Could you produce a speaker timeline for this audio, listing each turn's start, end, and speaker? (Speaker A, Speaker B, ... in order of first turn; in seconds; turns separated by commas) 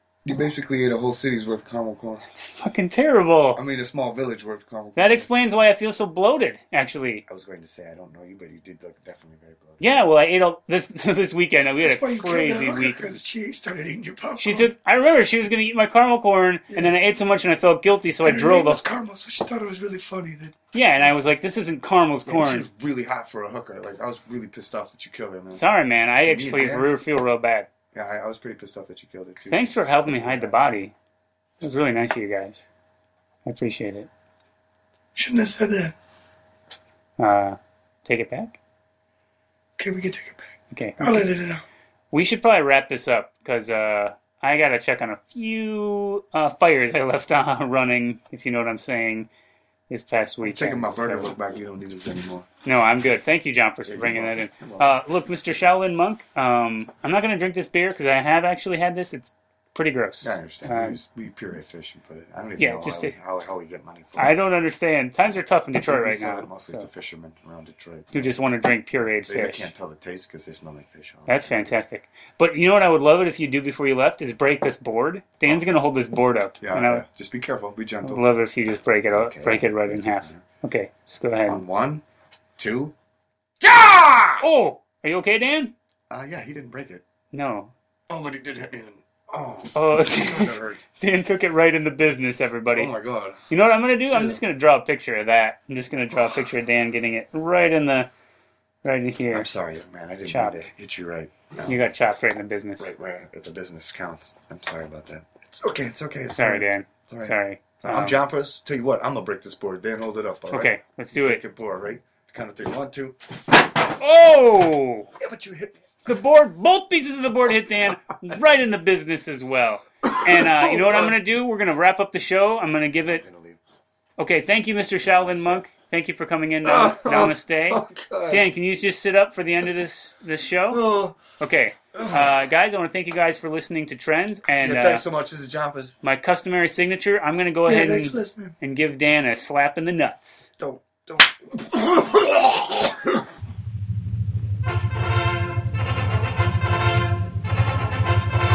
Speaker A: 0.2-2.2, Speaker B: 2.3-3.6, Speaker A: 3.5-5.3, Speaker B: 5.0-7.2, Speaker A: 7.3-10.1, Speaker B: 9.8-13.2, Speaker C: 11.8-14.7, Speaker B: 14.4-18.8, Speaker C: 18.2-20.6, Speaker B: 20.7-22.7, Speaker A: 22.3-25.6, Speaker B: 25.5-27.7, Speaker A: 26.2-26.9, Speaker A: 27.9-30.6, Speaker B: 29.5-30.9, Speaker B: 31.6-32.7, Speaker B: 33.5-34.1, Speaker C: 35.1-35.9, Speaker B: 37.2-38.6, Speaker C: 39.8-41.6, Speaker B: 40.7-41.3, Speaker B: 42.1-49.3, Speaker B: 49.9-51.3, Speaker A: 50.4-52.5, Speaker B: 52.6-61.0, Speaker A: 53.9-55.0, Speaker A: 60.2-64.4, Speaker B: 62.6-63.1, Speaker B: 64.2-66.9, Speaker A: 65.8-68.4, Speaker B: 68.1-69.7, Speaker A: 69.3-71.8, Speaker B: 71.3-77.0, Speaker A: 75.5-75.8, Speaker A: 76.6-78.3, Speaker B: 78.0-81.6, Speaker A: 79.1-80.4, Speaker A: 81.5-82.0, Speaker A: 82.6-82.9, Speaker A: 83.6-84.5, Speaker B: 84.4-85.7, Speaker A: 86.1-87.0, Speaker B: 87.3-87.7, Speaker A: 88.1-90.9, Speaker B: 89.7-92.9, Speaker A: 92.7-93.4, Speaker B: 93.5-98.1, Speaker A: 94.1-94.4, Speaker B: 98.8-99.5, Speaker A: 99.3-101.8, Speaker B: 100.3-100.7, Speaker B: 101.7-102.9, Speaker A: 102.8-113.2, Speaker B: 106.3-108.2, Speaker B: 110.5-111.4, Speaker B: 114.0-115.1, Speaker A: 115.2-115.8, Speaker B: 116.0-123.2, Speaker A: 120.0-121.2, Speaker A: 123.1-123.6, Speaker B: 124.2-130.8, Speaker A: 125.0-125.7, Speaker A: 126.6-128.4, Speaker A: 130.7-131.2, Speaker B: 131.4-135.0, Speaker A: 131.9-132.4, Speaker A: 134.6-135.9, Speaker B: 136.0-140.5, Speaker A: 137.7-138.5, Speaker A: 140.6-143.2